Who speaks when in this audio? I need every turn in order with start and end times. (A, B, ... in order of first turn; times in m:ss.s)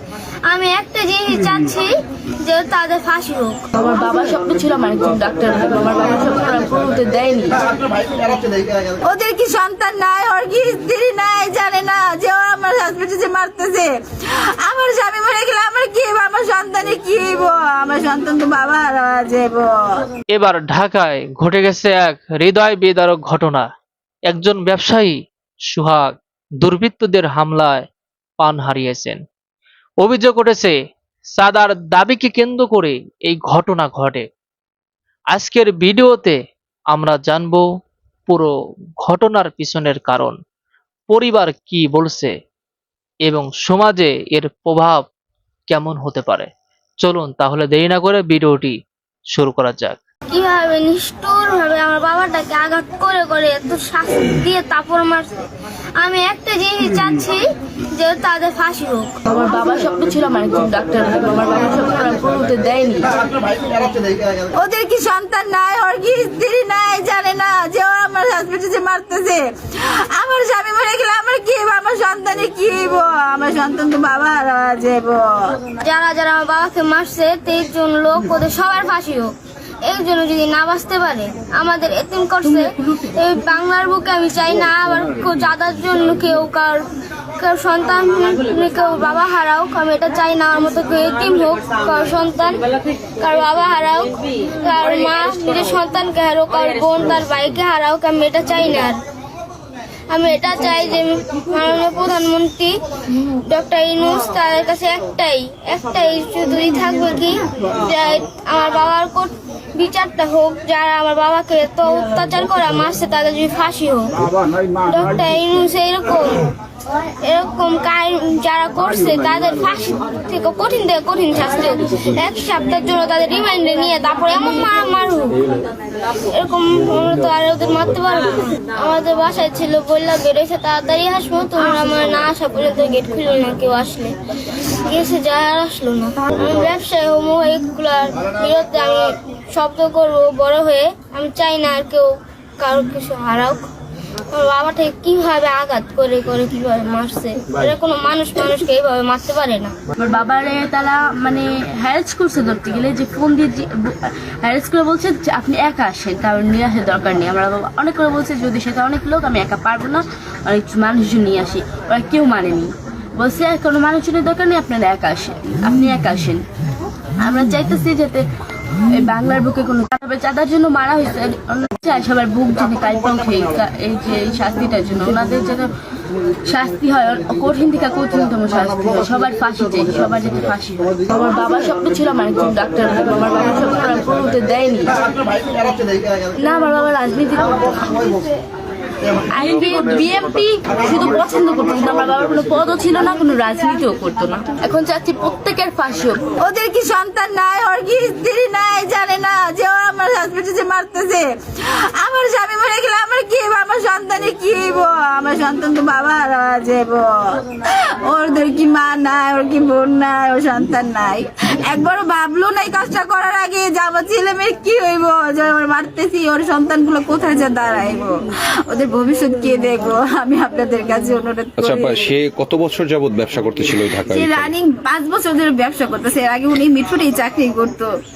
0:00.5-0:03.7 A
0:03.8-0:07.6 B
0:09.0-0:13.9 C
0:14.6-0:20.0 C
0:20.3-0:23.7 D
0:24.3-0:25.2 D
0:25.7-0:26.1 D
0:26.6-0:27.8 D
0:28.4-0:29.2 D
0:30.0-0:30.8 D
0:31.4-0:34.2 D
0:35.3-0:36.4 D
0:36.9-0:37.7 D
0:39.0-0:40.4 D
0:41.1-0:42.3 D
0:43.3-0:45.0 D
0:45.7-0:46.5 D
0:47.0-0:48.8 D
0:49.3-0:50.0 D
0:50.3-0:55.3 A
0:56.0-0:59.2 A
0:59.3-1:03.1 B
1:04.5-1:09.5 C
1:10.1-1:15.6 C
1:15.8-1:26.8 A
1:27.4-1:32.6 A
1:33.2-1:39.0 A
1:40.1-1:54.1 A
1:54.8-1:56.4 A
1:57.2-2:05.5 A
2:06.2-2:14.2 A
2:14.7-2:23.6 A
2:24.3-2:29.7 A
2:30.0-2:46.4 B
2:47.2-2:48.3 B
2:48.8-2:55.7 B
2:56.4-3:05.0 B
3:06.4-3:08.1 B
3:09.3-3:16.2 B
3:16.4-3:21.3 C
3:22.0-3:38.2 C
3:38.7-3:42.0 C
3:41.6-3:44.5 E
3:44.0-3:47.9 C